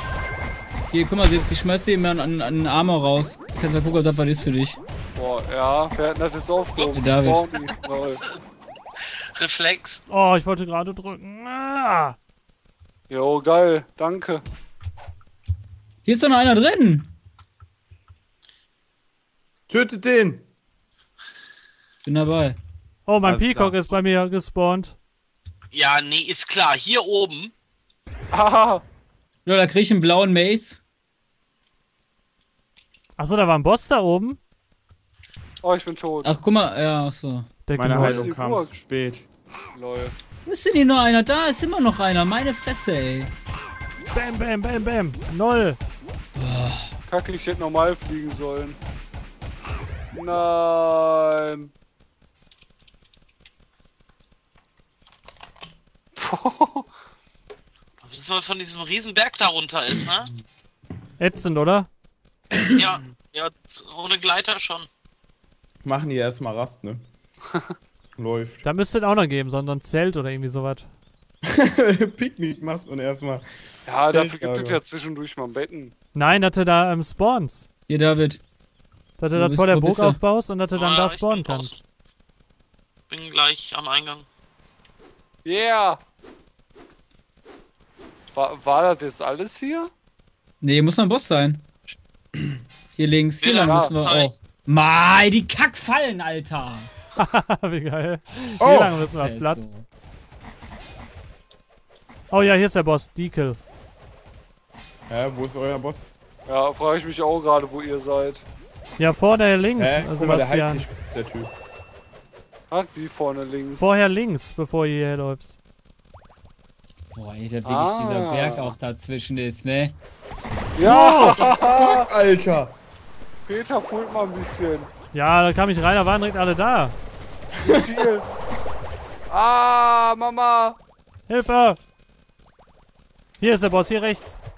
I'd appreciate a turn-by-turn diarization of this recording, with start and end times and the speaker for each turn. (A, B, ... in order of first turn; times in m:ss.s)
0:00.9-0:04.8 A
0:05.1-0:08.2 B
0:06.8-0:07.0 C
0:07.0-0:07.5 A
0:09.3-0:10.0 C
0:10.1-0:12.2 D
0:13.1-0:14.4 B
0:16.0-0:17.1 A
0:19.7-0:20.4 E
0:22.0-0:22.6 A
0:23.1-0:25.0 D
0:23.2-0:23.8 E
0:25.7-0:27.5 C
0:28.3-0:28.8 B
0:29.4-0:30.8 A
0:33.2-0:34.4 D
0:35.6-0:36.3 B
0:36.2-0:37.5 A
0:37.7-0:38.3 D
0:37.7-0:39.2 E
0:37.9-0:38.7 B
0:39.7-0:40.1 B
0:40.4-0:43.3 A
0:44.1-0:45.8 D
0:46.4-0:46.9 A
0:47.1-0:48.8 B
0:50.1-0:51.7 B
0:56.2-0:56.9 B
0:58.0-1:00.3 C
1:01.2-1:01.9 D
1:02.7-1:04.9 C
1:05.8-1:07.0 E
1:08.2-1:08.6 E
1:08.6-1:10.9 D
1:11.4-1:13.4 E
1:13.8-1:15.9 B
1:14.0-1:14.8 E
1:16.1-1:17.7 D
1:17.9-1:18.4 A
1:19.2-1:21.8 D
1:19.3-1:20.2 A
1:20.7-1:21.8 C
1:23.1-1:24.2 C
1:25.4-1:26.0 B
1:28.3-1:29.9 B
1:30.6-1:31.6 A
1:33.0-1:36.9 A
1:33.4-1:34.4 C
1:33.6-1:33.9 B
1:37.2-1:39.6 D
1:38.3-1:39.9 A
1:38.6-1:39.0 E
1:42.3-1:43.6 D
1:45.1-1:46.0 E
1:46.5-1:48.4 B
1:49.0-1:50.9 D
1:49.8-1:51.5 E
1:52.7-1:53.9 B
1:53.8-1:55.6 D
1:57.1-1:59.9 A
1:57.6-1:58.7 B
2:00.8-2:02.1 B
2:00.8-2:02.7 E
2:03.4-2:04.9 B
2:05.1-2:07.0 D
2:07.6-2:07.9 E
2:07.7-2:08.2 B
2:09.3-2:10.8 B
2:11.3-2:11.8 D
2:13.4-2:14.4 D